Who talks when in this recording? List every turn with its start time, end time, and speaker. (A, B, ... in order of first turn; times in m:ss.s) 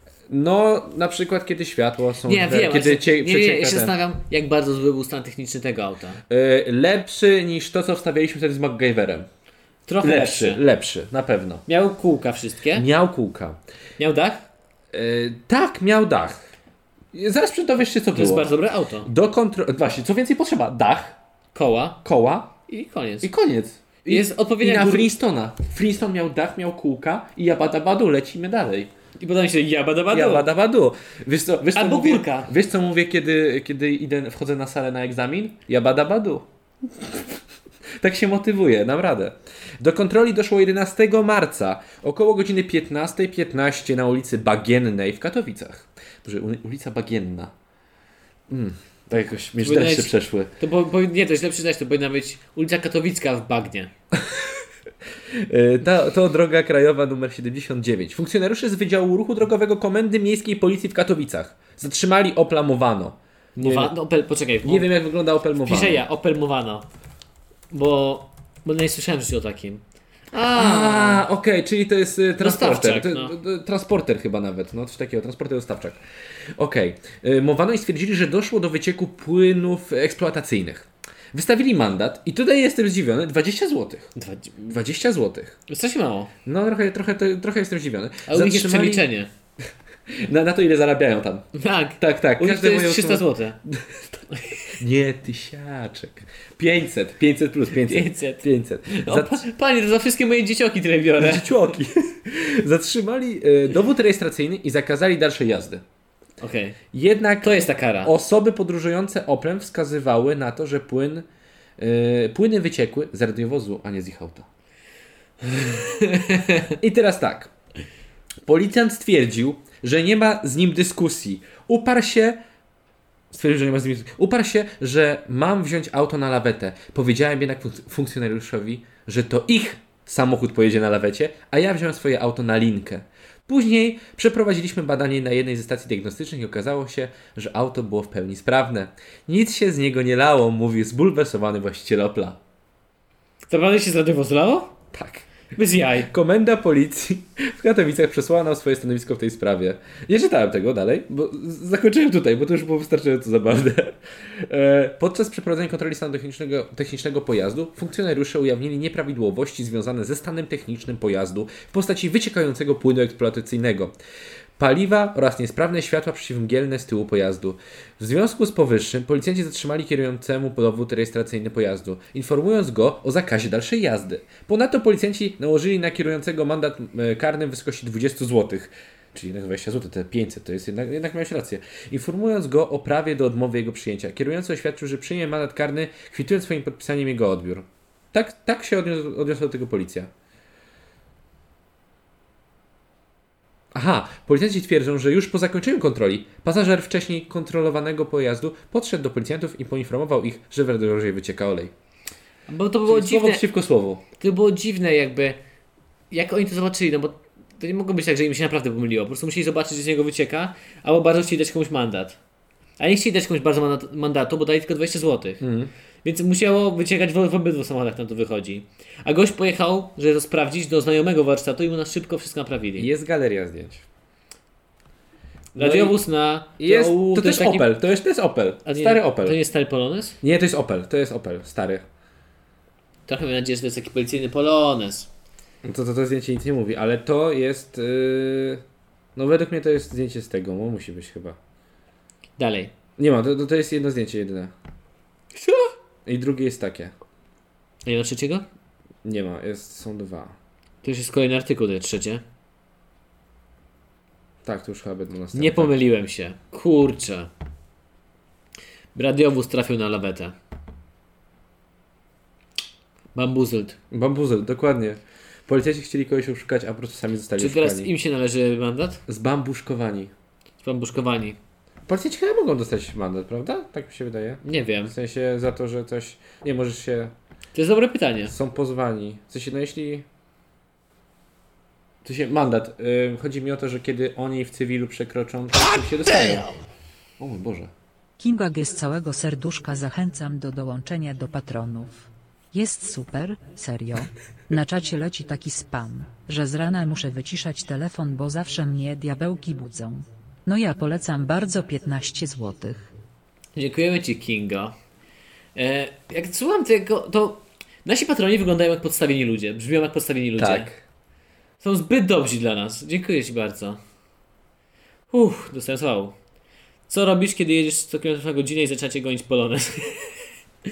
0:00.3-0:04.0 A
0:02.2-0:06.2 B
0:06.3-0:09.3 A
0:09.9-0:10.6 B
0:10.0-0:11.6 A
0:11.7-0:12.9 B
0:12.7-0:13.6 A
0:14.0-0:14.5 B
0:14.9-0:16.4 A
0:17.1-0:18.5 A
0:18.1-0:19.1 B
0:19.0-0:21.2 A
0:21.5-0:22.0 B
0:22.0-0:22.5 A
0:22.7-0:23.3 B
0:23.2-0:28.9 A
0:24.1-0:25.1 B
0:29.2-0:30.5 B
0:30.1-0:37.4 A
0:31.8-0:32.5 B
0:38.0-0:47.5 A
0:48.5-0:50.5 A
0:49.6-0:53.9 B
0:54.1-0:54.6 A
0:55.3-1:03.9 A
1:03.6-1:04.9 B
1:04.6-1:06.0 A
1:05.6-1:06.9 B
1:07.7-1:11.2 B
1:10.5-1:16.0 A
1:12.4-1:13.4 B
1:16.6-1:24.1 A
1:24.2-1:24.7 B
1:24.6-1:25.6 A
1:25.7-1:26.3 B
1:26.5-1:29.1 A
1:28.3-1:29.3 B
1:30.1-1:39.4 A
1:31.6-1:33.6 B
1:34.3-1:34.7 B
1:37.8-1:41.6 B
1:41.2-1:45.8 A
1:46.4-1:46.8 B
1:46.9-1:51.3 A
1:47.4-1:48.1 B
1:51.8-1:54.5 A
1:55.4-1:56.8 B
1:56.8-1:57.5 A
1:58.4-2:02.4 A
2:03.3-2:22.4 A
2:23.5-2:24.8 B
2:24.9-2:25.3 A
2:25.5-2:26.1 B
2:26.0-2:43.9 A
2:44.6-3:10.1 A
3:13.7-3:21.7 A
3:22.5-3:23.4 B
3:22.9-3:24.0 A
3:24.2-3:25.4 B
3:26.1-3:32.2 B
3:32.8-3:35.4 B
3:35.4-3:35.7 A
3:36.0-3:42.9 B
3:42.8-3:43.8 A
3:45.5-3:46.0 A
3:45.6-3:47.7 B
3:46.6-3:49.4 A
3:48.6-3:50.2 B
3:50.2-3:51.9 A
3:53.1-3:55.1 B
3:55.6-3:58.6 A
3:59.2-4:01.4 A
4:02.4-4:02.7 B
4:03.0-4:04.5 A
4:05.3-4:05.7 B
4:06.1-4:06.9 A
4:07.8-4:08.5 B
4:09.0-4:10.4 A
4:10.8-4:12.2 B
4:14.4-4:15.8 A
4:15.3-4:17.3 B
4:19.0-4:20.4 B
4:23.2-4:23.8 B
4:23.9-4:27.9 A
4:27.4-4:29.0 B
4:29.1-4:30.1 A
4:30.6-4:31.4 B
4:31.9-4:37.1 A
4:34.4-4:34.9 B
4:37.5-4:38.3 B
4:38.3-4:40.1 A
4:42.0-4:46.5 A
4:47.2-4:47.7 A
4:48.2-5:02.9 C
5:03.6-5:04.8 B
5:05.6-5:10.7 B
5:10.4-5:10.8 A
5:11.6-5:13.8 B
5:15.1-5:16.2 B
5:16.9-5:20.2 B